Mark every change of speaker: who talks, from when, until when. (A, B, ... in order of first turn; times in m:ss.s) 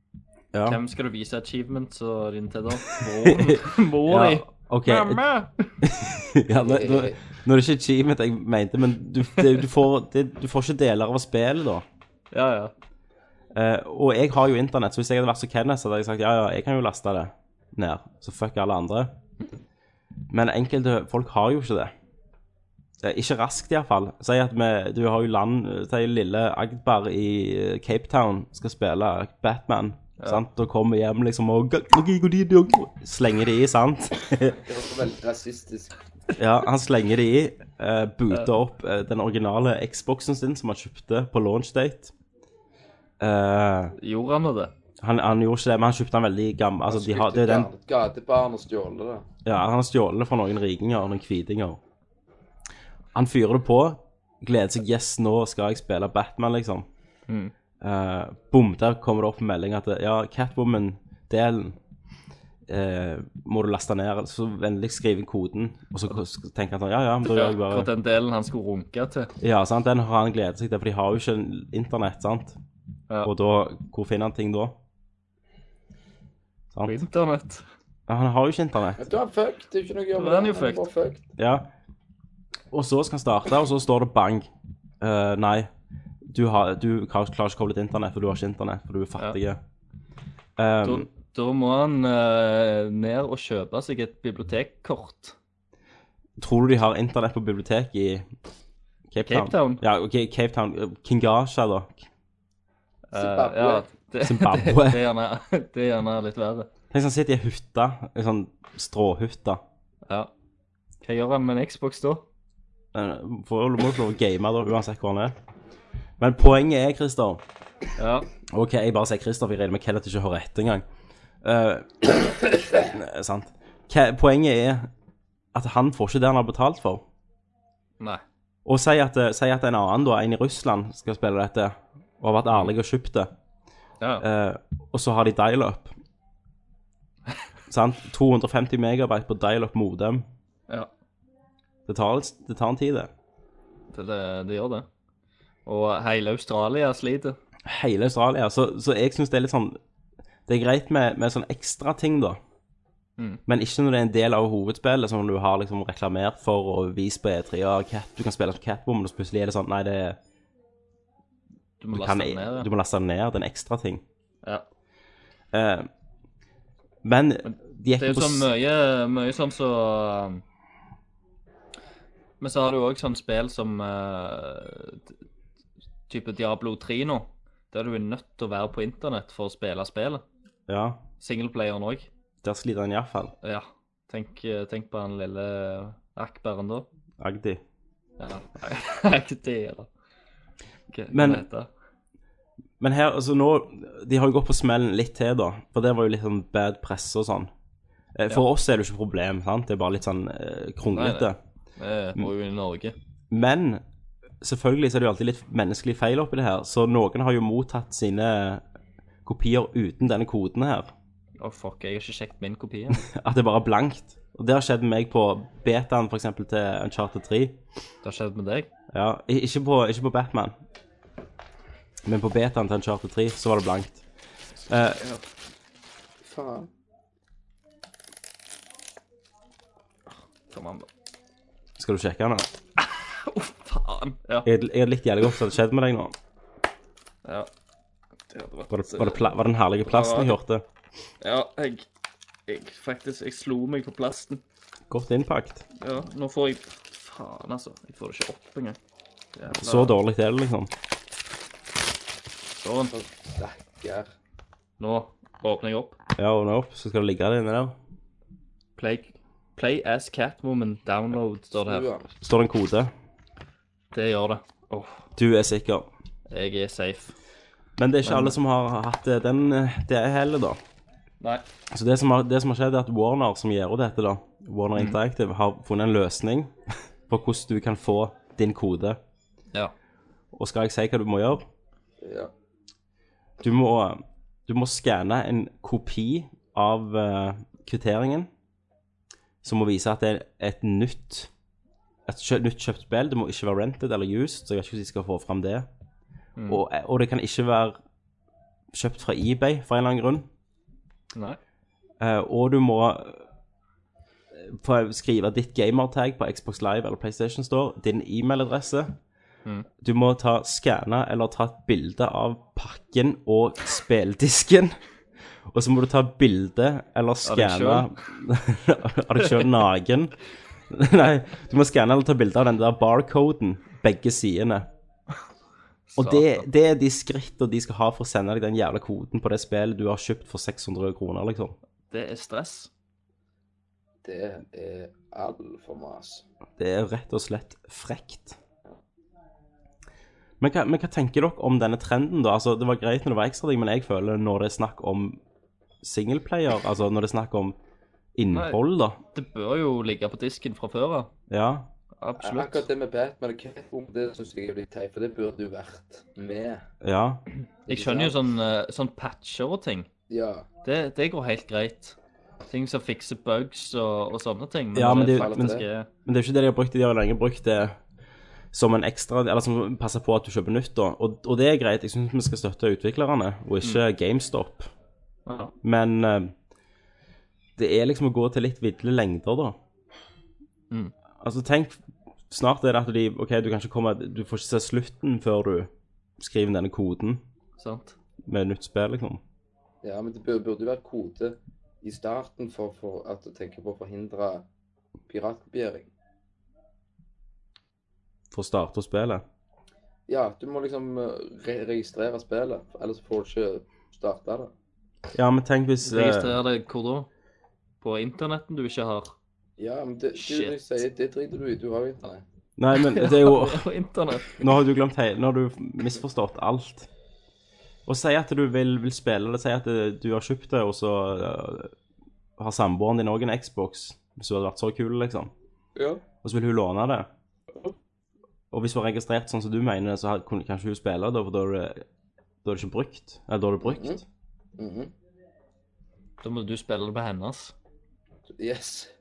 0:00.5-0:00.8 A
0:00.6-0:05.7 B
0:03.2-0:05.2 A
0:05.8-0:11.8 A
0:06.5-0:07.2 C
0:12.3-0:12.7 B
0:13.5-0:19.1 A
0:20.3-0:21.9 A
0:23.0-0:34.6 A
0:34.6-0:35.9 C
0:36.4-0:42.1 A
0:43.2-0:44.0 A
0:44.0-0:44.7 B
0:45.0-0:47.7 A
0:46.9-0:49.2 C
0:49.4-0:51.8 A
0:53.1-0:56.9 A
0:57.3-0:57.5 B
0:57.8-1:01.8 A
1:02.7-1:07.9 A
1:07.2-1:09.3 B
1:09.4-1:12.6 A
1:13.2-1:14.8 A
1:16.7-1:17.0 A
1:16.8-1:17.6 B
1:18.1-1:19.0 A
1:19.0-1:21.2 C
1:20.2-1:20.9 B
1:21.4-1:21.7 A
1:22.7-1:24.5 A
1:25.0-1:25.7 A
1:26.3-1:29.6 A
1:30.6-1:31.1 A
1:30.8-1:35.4 B
1:36.4-1:38.3 A
1:39.1-1:42.0 A
1:39.2-1:39.8 B
1:43.1-1:46.7 B
1:43.2-1:43.9 C
1:44.2-1:45.0 A
1:46.9-1:49.6 A
1:51.0-1:52.2 B
1:52.9-1:55.4 A
1:56.2-1:57.4 A
1:58.0-1:58.3 B
1:58.5-2:00.8 A
2:01.4-2:04.9 A
2:05.5-2:07.0 A
2:08.6-2:13.3 A
2:14.0-2:14.3 B
2:14.2-2:15.9 A
2:17.7-2:20.3 A
2:21.9-2:23.1 A
2:23.9-2:24.9 B
2:25.7-2:27.4 B
2:27.7-2:29.8 A
2:30.5-2:32.4 A
2:33.5-2:40.2 A
2:41.8-2:42.7 B
2:41.9-2:44.0 A
2:45.5-2:45.9 A
2:47.0-2:48.5 A
2:47.4-2:50.4 B
2:52.4-2:55.0 B
2:56.1-3:00.2 B
3:00.7-3:01.0 A
3:01.2-3:02.1 B
3:02.4-3:03.3 A
3:03.4-3:06.9 B
3:07.2-3:07.6 A
3:08.2-3:09.9 B
3:10.9-3:11.7 B
3:11.1-3:11.5 A
3:12.8-3:17.5 A
3:18.2-3:21.4 A
3:20.9-3:23.0 B
3:23.3-3:23.8 A
3:24.4-3:28.6 A
3:29.2-3:30.9 A
3:31.4-3:33.1 B
3:32.9-3:37.6 A
3:38.0-3:38.7 B
3:38.9-3:40.6 A
3:42.0-3:44.0 A
3:44.7-3:45.0 A
3:46.2-3:46.7 C
3:50.5-3:50.9 B
3:51.8-3:52.5 A
3:52.8-3:54.5 B
3:54.4-3:56.2 A
3:58.3-3:59.3 B
3:58.7-4:00.6 A
3:59.8-4:00.4 B
4:01.2-4:01.9 B
4:02.5-4:04.4 B
4:04.9-4:05.6 A
4:05.8-4:08.8 B
4:09.4-4:10.0 B
4:09.6-4:10.7 A
4:12.6-4:12.9 B
4:12.9-4:14.1 C
4:14.8-4:16.0 B
4:16.2-4:17.8 A
4:18.8-4:21.9 B
4:21.6-4:22.1 C
4:22.2-4:22.9 A
4:23.9-4:25.0 B
4:25.2-4:25.9 A
4:26.3-4:27.2 B
4:27.8-4:30.6 A
4:28.0-4:28.4 B
4:31.7-4:36.5 A
4:37.1-4:39.0 A
4:40.3-4:41.4 A
4:42.0-4:42.3 C
4:43.4-4:48.3 A
4:49.4-4:51.3 A
4:52.1-4:55.7 A
4:56.4-4:56.6 B
4:56.5-4:57.8 A
4:58.7-5:00.3 A
5:02.0-5:03.2 A
5:04.3-5:09.0 A
5:09.8-5:14.8 A
5:15.5-5:20.1 A
5:17.2-5:17.9 B
5:20.7-5:24.7 A
5:25.9-5:26.5 B
5:26.0-5:31.6 A
5:31.9-5:32.7 B
5:34.0-5:36.2 C
5:36.6-5:38.4 A
5:40.4-5:45.2 A
5:45.8-5:47.6 A
5:48.2-5:49.0 A
5:48.3-5:48.6 B
5:49.1-5:51.1 B
5:51.3-5:51.7 A
5:52.0-5:52.7 B
5:52.2-5:56.6 C
5:56.8-5:57.2 A
5:57.7-5:59.9 B
5:57.7-5:58.2 C
6:00.1-6:00.5 C
6:00.6-6:02.0 B
6:02.5-6:05.9 B
6:04.7-6:07.8 A
6:05.0-6:05.6 C
6:08.5-6:14.7 A
6:15.3-6:15.5 B
6:15.6-6:16.3 A
6:17.6-6:19.6 A
6:21.2-6:27.2 A
6:27.6-6:28.0 B
6:28.2-6:29.2 A
6:29.8-6:34.4 C
6:35.1-6:35.9 C
6:38.3-6:39.2 A
6:40.1-6:44.5 C
6:45.1-6:46.4 A
6:45.8-6:47.1 B
6:47.8-6:49.2 B
6:49.6-6:52.2 C
6:50.2-6:50.6 B
6:52.6-6:53.7 A
6:52.8-6:54.4 B
6:54.3-6:56.9 A
6:57.9-7:01.7 A
7:02.4-7:05.3 A
7:05.8-7:06.0 C
7:06.2-7:07.1 A
7:08.5-7:11.8 A
7:12.4-7:14.0 A
7:13.6-7:14.0 C
7:14.6-7:14.9 C
7:16.2-7:17.5 B
7:18.4-7:18.9 C